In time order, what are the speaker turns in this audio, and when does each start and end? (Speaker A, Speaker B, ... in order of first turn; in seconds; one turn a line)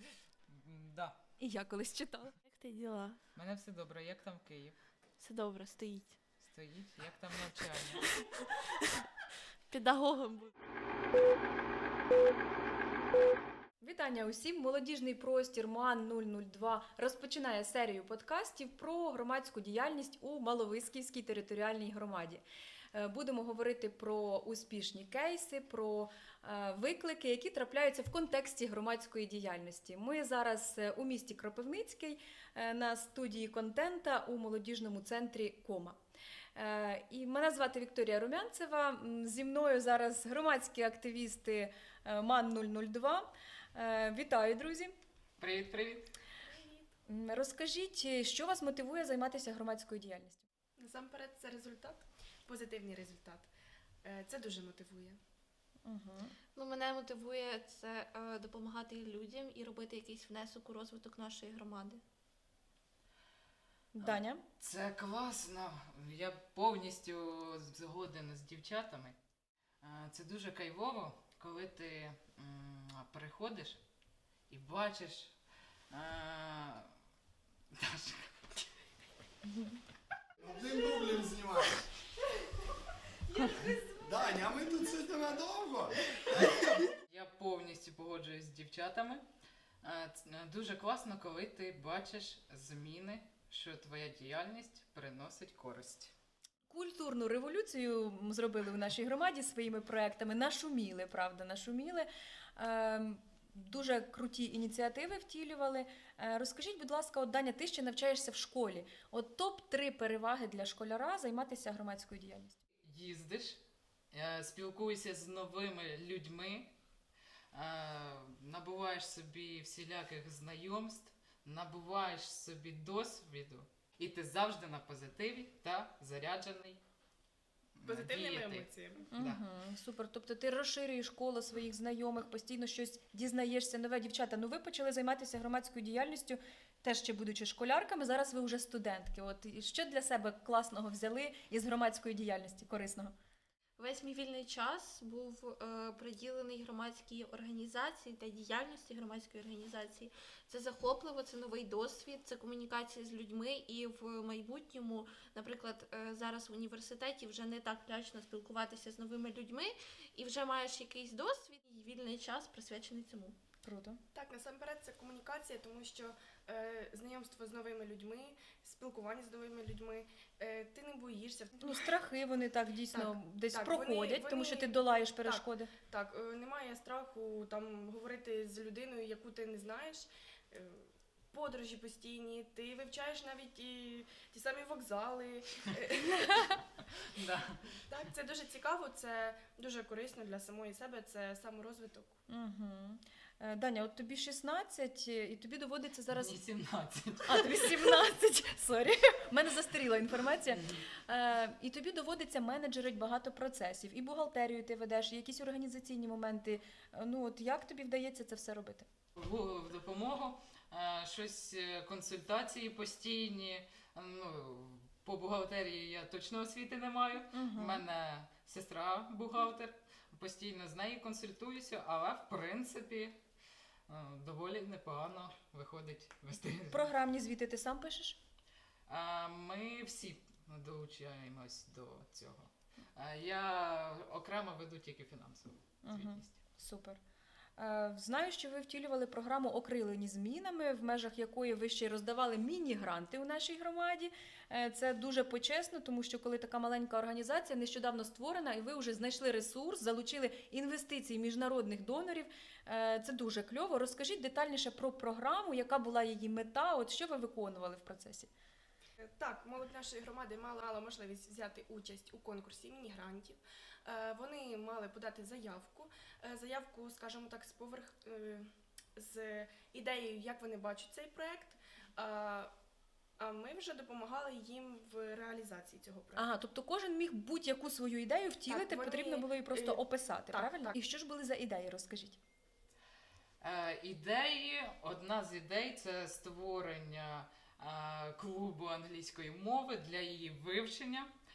Speaker A: 0.5-1.2
Speaker B: 1.4-2.4
Speaker C: 2.5-3.2
Speaker A: 3.4-4.8
Speaker C: 5.2-6.2
Speaker A: 6.4-8.0
Speaker C: 8.0-8.9
Speaker C: 9.7-10.5
Speaker B: 13.8-22.4
Speaker B: 22.9-36.0
Speaker B: 36.6-44.9
Speaker A: 45.4-46.1
Speaker D: 46.4-46.9
Speaker B: 47.1-50.4
Speaker D: 50.8-53.5
Speaker D: 54.0-55.2
Speaker B: 55.9-56.3
Speaker C: 56.6-62.0
Speaker B: 64.0-64.4
Speaker A: 64.0-69.2
Speaker A: 69.8-73.8
Speaker A: 74.5-75.3
Speaker A: 75.9-76.9
Speaker A: 77.7-78.7
Speaker E: 80.4-81.8
Speaker D: 83.3-84.0
Speaker E: 84.0-87.0
Speaker A: 87.1-89.2
Speaker A: 89.8-96.1
Speaker B: 96.7-112.6
Speaker A: 112.8-113.6
Speaker A: 114.1-116.7
Speaker A: 117.5-126.8
Speaker A: 127.8-129.4
Speaker D: 127.8-129.1
Speaker B: 129.1-143.1
Speaker C: 143.8-163.4
Speaker B: 163.6-164.0
Speaker D: 164.1-171.9
Speaker B: 171.6-175.7
Speaker D: 172.9-186.6
Speaker A: 187.0-187.8
Speaker D: 187.9-192.2
Speaker B: 192.3-196.3
Speaker A: 196.1-197.9
Speaker B: 197.3-208.9
Speaker A: 200.5-200.8
Speaker A: 209.2-223.2
Speaker B: 217.3-217.8
Speaker A: 223.9-226.9
Speaker B: 226.7-228.2
Speaker A: 228.9-236.4
Speaker B: 235.8-237.0
Speaker B: 237.6-258.3
Speaker D: 259.0-272.5
Speaker D: 273.2-276.3
Speaker B: 276.2-282.2
Speaker D: 278.5-280.8
Speaker A: 283.4-291.1